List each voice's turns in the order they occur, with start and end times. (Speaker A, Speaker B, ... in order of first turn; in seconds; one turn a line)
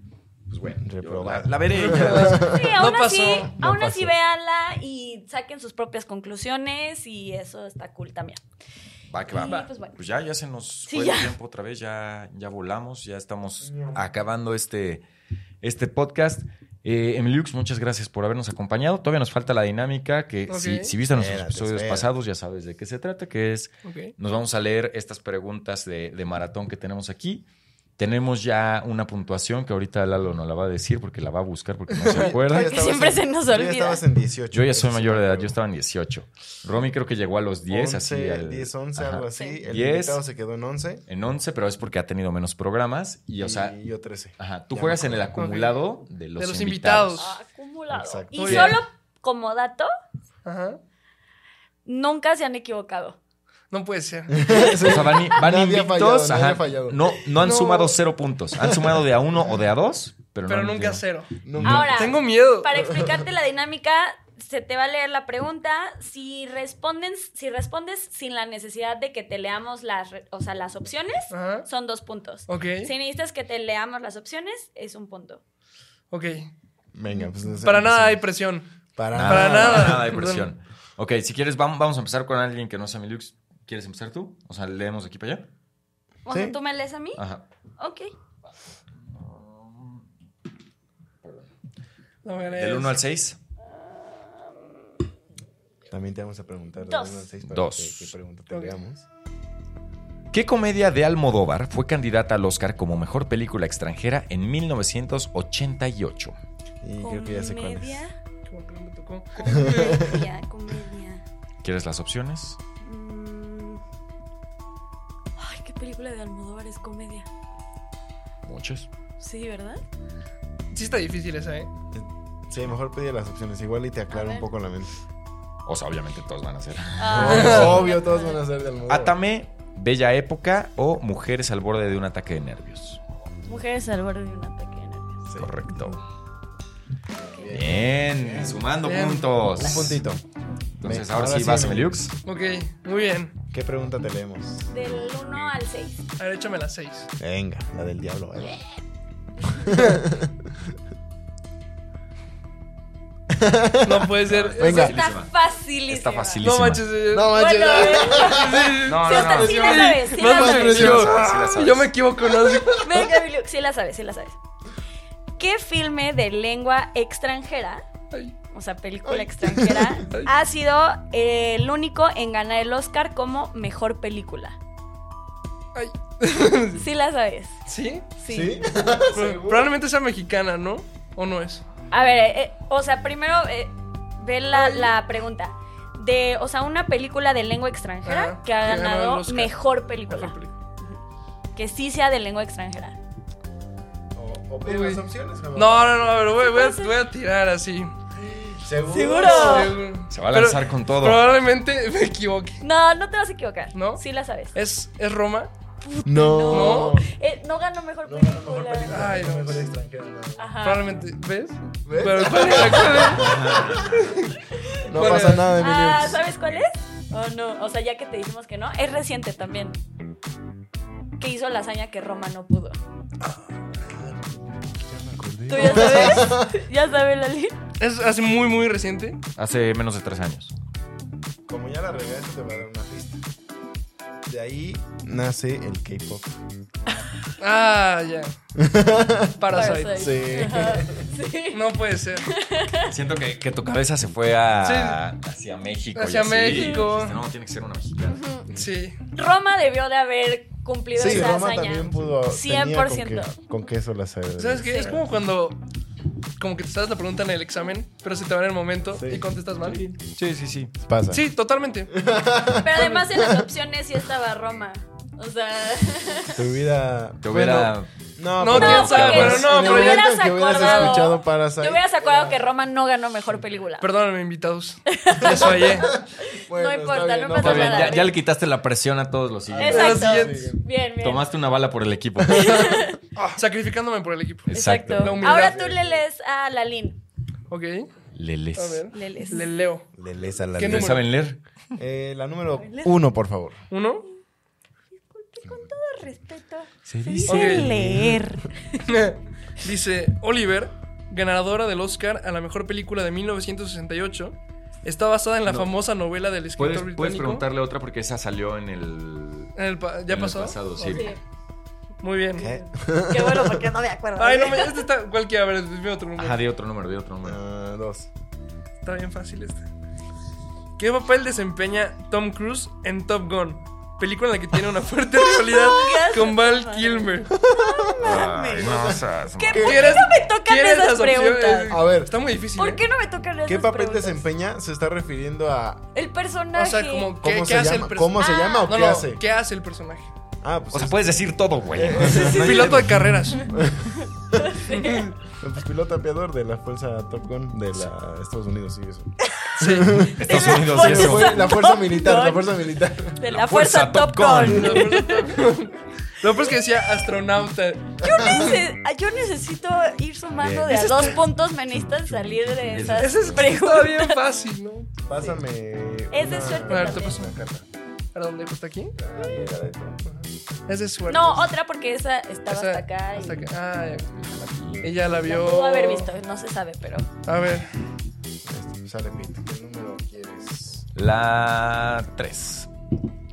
Speaker A: 0.5-2.5
Speaker B: 0.8-2.8
Speaker C: 1.7-3.5
Speaker D: 2.4-8.4
Speaker B: 3.5-4.1
Speaker A: 9.1-15.0
Speaker D: 9.3-10.0
Speaker C: 9.4-9.7
Speaker D: 10.9-11.3
Speaker B: 13.6-14.1
Speaker A: 15.6-27.4
Speaker C: 20.5-20.9
Speaker B: 21.1-22.1
Speaker C: 23.8-24.1
Speaker A: 28.0-32.9
Speaker C: 31.9-32.3
Speaker B: 32.1-35.6
Speaker D: 32.5-34.0
Speaker A: 34.5-40.2
Speaker B: 37.7-41.0
Speaker D: 39.3-39.6
Speaker A: 41.1-43.8
Speaker B: 43.4-45.4
Speaker A: 44.4-47.2
Speaker C: 45.4-45.8
Speaker C: 46.4-47.4
Speaker D: 47.2-49.9
Speaker B: 47.9-48.5
Speaker C: 48.4-48.8
Speaker A: 48.4-48.8
Speaker C: 50.4-50.8
Speaker D: 51.9-53.2
Speaker C: 53.7-54.9
Speaker B: 54.3-57.2
Speaker A: 54.7-61.9
Speaker C: 57.4-58.0
Speaker C: 60.5-61.3
Speaker B: 61.4-62.2
Speaker D: 61.6-75.4
Speaker C: 61.9-62.7
Speaker B: 62.8-63.2
Speaker C: 71.3-71.7
Speaker C: 72.5-72.9
Speaker C: 76.1-76.5
Speaker B: 76.9-78.2
Speaker C: 77.6-78.7
Speaker B: 79.0-80.0
Speaker A: 79.1-85.5
Speaker C: 79.2-80.5
Speaker D: 86.2-87.2
Speaker B: 86.3-86.5
Speaker A: 87.2-87.4
Speaker D: 87.8-88.1
Speaker A: 89.0-90.0
Speaker A: 91.2-91.5
Speaker C: 92.2-93.0
Speaker A: 92.5-93.4
Speaker D: 93.9-94.5
Speaker B: 95.9-99.0
Speaker D: 96.8-97.3
Speaker A: 97.4-98.1
Speaker A: 100.3-106.3
Speaker B: 106.8-108.0
Speaker D: 107.0-108.1
Speaker C: 108.5-110.2
Speaker D: 109.3-111.2
Speaker B: 109.5-110.2
Speaker A: 111.6-112.6
Speaker D: 112.8-113.8
Speaker D: 115.4-117.3
Speaker A: 118.4-118.9
Speaker D: 119.2-119.8
Speaker C: 120.7-121.7
Speaker B: 121.9-125.0
Speaker D: 124.1-124.5
Speaker A: 125.7-127.8
Speaker D: 127.0-128.4
Speaker B: 127.1-129.2
Speaker C: 127.2-127.8
Speaker A: 128.9-133.0
Speaker D: 133.4-135.2
Speaker A: 135.4-136.0
Speaker B: 137.1-138.6
Speaker A: 137.5-140.0
Speaker C: 138.8-139.3
Speaker B: 139.5-140.2
Speaker A: 140.8-142.1
Speaker B: 140.8-142.0
Speaker C: 142.2-143.3
Speaker B: 143.5-144.9
Speaker D: 144.7-146.0
Speaker C: 146.2-147.1
Speaker B: 147.2-148.6
Speaker B: 149.5-150.6
Speaker B: 153.3-154.9
Speaker C: 153.8-154.9
Speaker A: 154.2-155.3
Speaker D: 154.6-156.4
Speaker A: 155.9-156.8
Speaker C: 156.4-157.3
Speaker B: 157.1-161.5
Speaker D: 157.3-161.0
Speaker C: 158.1-162.9
Speaker A: 158.8-160.0
Speaker A: 160.5-161.9
Speaker B: 162.2-163.1
Speaker D: 162.8-164.4
Speaker D: 165.4-167.8
Speaker D: 168.5-174.6
Speaker B: 169.1-170.1
Speaker C: 175.7-176.9
Speaker D: 176.7-178.7
Speaker C: 177.7-178.1
Speaker B: 178.3-179.7
Speaker C: 179.1-181.6
Speaker D: 181.9-190.4
Speaker C: 184.5-184.9
Speaker C: 188.0-189.5
Speaker C: 190.1-190.5
Speaker D: 191.5-192.9
Speaker B: 194.1-196.3
Speaker C: 194.7-195.0
Speaker C: 195.5-197.9
Speaker D: 196.4-197.0
Speaker B: 198.1-199.8
Speaker D: 198.8-199.8
Speaker C: 199.2-202.6
Speaker A: 200.1-201.3
Speaker D: 202.6-204.5
Speaker C: 203.7-204.0
Speaker C: 204.5-205.5
Speaker D: 205.8-209.1
Speaker B: 206.0-207.1
Speaker C: 206.5-207.0
Speaker B: 208.0-210.5
Speaker C: 208.9-209.6
Speaker D: 210.4-210.9
Speaker C: 210.6-214.4
Speaker B: 211.8-213.8
Speaker A: 213.1-213.9
Speaker D: 214.6-219.8
Speaker B: 214.8-216.3
Speaker C: 214.9-215.5
Speaker D: 221.2-222.8
Speaker B: 223.8-226.5
Speaker D: 225.5-227.6
Speaker C: 225.6-226.2
Speaker C: 227.8-229.2
Speaker A: 229.3-230.5
Speaker B: 231.5-233.2
Speaker B: 234.2-236.4
Speaker C: 237.4-238.3
Speaker B: 238.6-241.1
Speaker C: 239.4-240.5
Speaker D: 239.5-242.9
Speaker C: 241.5-242.3
Speaker A: 242.8-248.4
Speaker C: 244.6-245.0
Speaker C: 245.9-247.2
Speaker D: 246.5-246.8
Speaker D: 248.1-248.5
Speaker C: 248.5-249.0
Speaker D: 249.1-253.3
Speaker B: 250.9-255.0
Speaker C: 254.4-255.6
Speaker D: 254.6-254.9
Speaker C: 256.4-259.8
Speaker B: 258.9-259.3
Speaker A: 259.6-260.7
Speaker B: 260.8-261.2
Speaker C: 261.1-261.9
Speaker B: 261.9-263.5
Speaker D: 262.6-266.4
Speaker C: 262.8-263.0
Speaker B: 266.3-272.4
Speaker A: 267.2-267.9
Speaker C: 268.4-271.1
Speaker D: 268.5-273.9
Speaker A: 268.5-269.5
Speaker C: 273.8-275.9
Speaker D: 274.9-278.1
Speaker B: 275.2-278.1
Speaker A: 277.4-280.0
Speaker B: 279.5-280.6
Speaker D: 279.6-281.2
Speaker C: 279.6-280.5
Speaker A: 281.0-283.4
Speaker D: 282.3-283.0
Speaker C: 282.5-282.8
Speaker C: 283.4-285.5
Speaker A: 284.5-285.2
Speaker D: 284.5-287.0
Speaker B: 284.6-286.0
Speaker C: 287.5-287.9
Speaker A: 288.1-288.9
Speaker C: 288.6-289.9
Speaker D: 288.9-289.5
Speaker B: 289.9-291.0
Speaker C: 290.6-291.0
Speaker A: 290.6-291.4
Speaker B: 291.8-293.6
Speaker D: 292.6-292.9
Speaker C: 293.7-294.1
Speaker D: 294.9-298.8
Speaker A: 296.9-297.8
Speaker C: 297.3-297.7
Speaker B: 297.7-298.3
Speaker C: 298.8-307.4
Speaker A: 305.4-305.7
Speaker A: 306.6-309.6
Speaker C: 309.6-311.1
Speaker A: 310.1-311.1
Speaker D: 310.9-311.2
Speaker C: 312.0-312.5
Speaker D: 312.4-314.9
Speaker B: 312.4-313.6
Speaker C: 314.2-316.4
Speaker A: 316.2-317.4
Speaker B: 317.2-318.1
Speaker C: 318.8-319.7
Speaker C: 320.8-327.3
Speaker D: 325.3-331.8
Speaker B: 327.3-330.0
Speaker A: 328.0-330.0
Speaker C: 329.6-332.8
Speaker B: 331.7-332.1
Speaker D: 332.6-334.2
Speaker B: 333.4-335.9
Speaker D: 335.9-337.1
Speaker C: 336.5-340.1
Speaker B: 337.2-339.2
Speaker D: 338.2-338.8
Speaker B: 340.4-341.1
Speaker A: 340.7-343.2
Speaker B: 341.7-342.9
Speaker C: 342.0-343.6
Speaker D: 342.2-342.6
Speaker D: 343.3-345.1
Speaker B: 343.4-353.2
Speaker C: 344.7-345.1
Speaker D: 349.2-352.6
Speaker C: 349.6-350.0
Speaker A: 350.0-351.4
Speaker D: 353.1-355.4
Speaker A: 353.2-354.9
Speaker C: 354.5-358.0
Speaker D: 356.4-356.9
Speaker D: 358.0-364.2
Speaker B: 358.0-358.6
Speaker B: 360.4-361.1
Speaker C: 360.7-361.2
Speaker B: 362.1-362.4
Speaker A: 362.6-363.5
Speaker C: 362.9-364.9
Speaker B: 365.1-367.6
Speaker D: 366.1-367.2
Speaker C: 366.7-367.3
Speaker C: 368.1-368.9
Speaker B: 369.0-370.3
Speaker C: 370.7-371.5
Speaker D: 371.1-373.5
Speaker C: 372.5-374.1
Speaker A: 374.0-374.9
Speaker C: 374.8-376.1
Speaker D: 375.2-377.1
Speaker C: 377.2-377.7
Speaker B: 378.4-380.9
Speaker A: 380.9-382.7